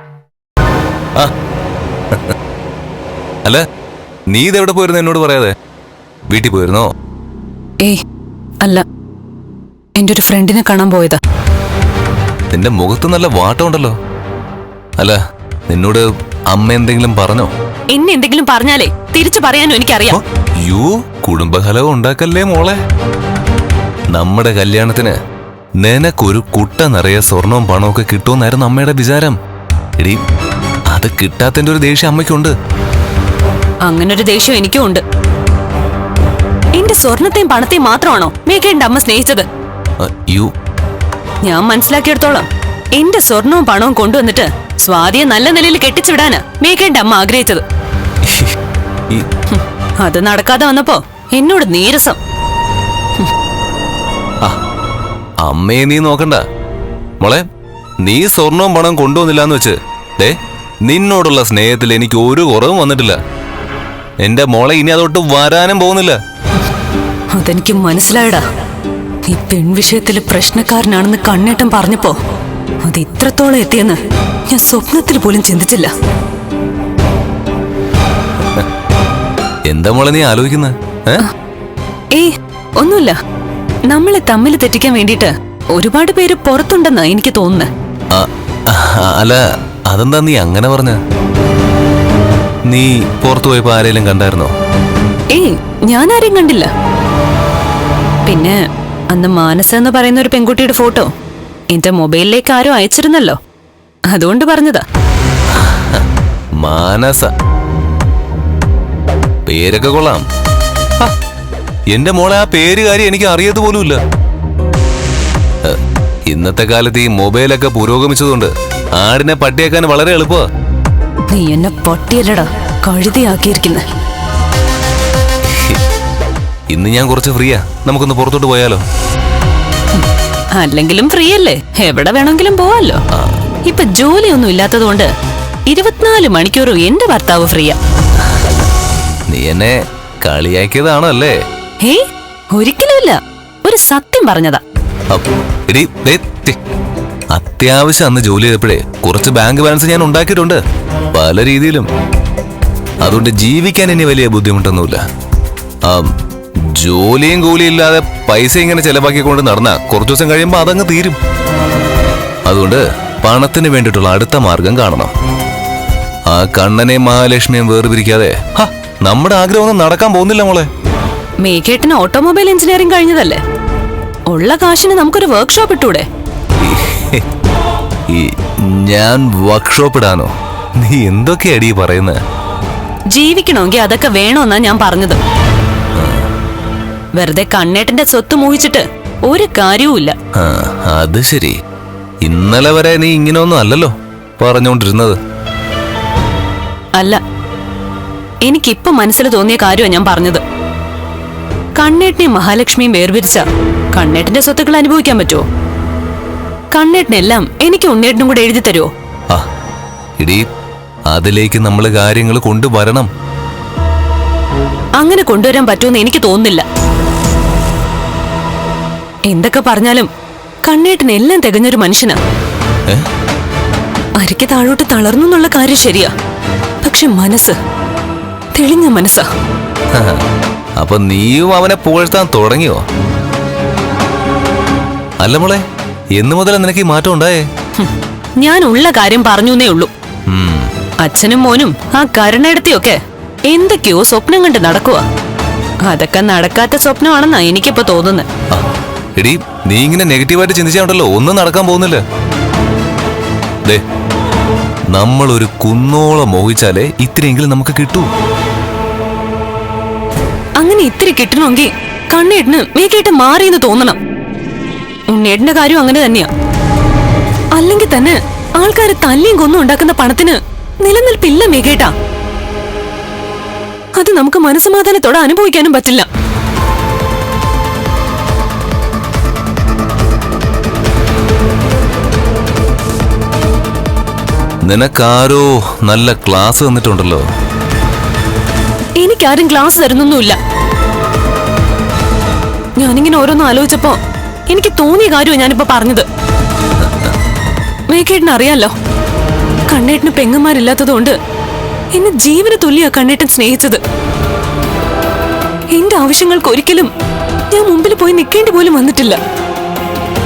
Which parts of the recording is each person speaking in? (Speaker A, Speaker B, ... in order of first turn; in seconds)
Speaker A: 4.3-5.5, 6.3-6.9, 12.5-14.0, 15.7-17.5, 20.1-22.8, 24.1-25.2, 25.8-29.4, 30.0-30.2, 30.9-32.5, 40.0-40.5, 48.2-48.5, 55.4-56.4, 58.0-63.2, 64.2-66.2, 79.7-81.2, 88.1-91.0, 92.7-94.5, 105.5-106.0, 106.6-107.3, 109.5-110.2, 111.9-114.0, 115.6-120.5, 125.5-125.8, 126.7-128.8, 139.3-141.4, 145.1-146.6, 147.3-150.6, 151.1-151.9, 153.0-155.0, 155.8-156.1, 156.6-161.2, 162.5-165.1, 166.3-170.7, 176.6-177.2, 178.1-182.2, 186.0-186.3, 190.4-191.6, 192.2-195.2, 211.1-213.1, 229.9-230.2, 230.8-232.8, 235.2-235.6, 236.2-237.4, 240.3-240.7, 249.2-252.0, 254.9-258.1, 284.6-287.2
Speaker B: 10.0-11.2, 17.9-20.2, 33.9-35.0, 36.8-39.5, 41.4-47.6, 49.5-52.2, 67.3-68.4, 69.2-72.2, 72.8-74.0, 74.5-75.9, 82.1-83.2, 83.9-87.7, 95.3-96.7, 98.3-98.6, 99.1-101.1, 101.7-103.4, 104.1-104.8, 121.3-123.8, 130.6-133.0, 133.7-135.1, 135.7-137.8, 142.5-144.6, 171.4-173.4, 174.3-176.1, 183.1-185.2, 187.2-190.2, 198.4-200.4, 201.8-205.4, 206.7-208.9, 215.0-216.7, 219.3-220.1, 220.7-222.2, 224.2-226.1, 226.8-227.6, 228.6-229.3, 237.8-239.9, 241.0-245.1, 245.9-248.3, 260.6-264.0, 265.1-266.3, 267.6-271.9, 274.0-276.1, 289.0-290.4, 292.8-296.1, 297.9-298.7, 299.7-301.2, 301.9-303.8, 305.7-306.9, 307.5-309.2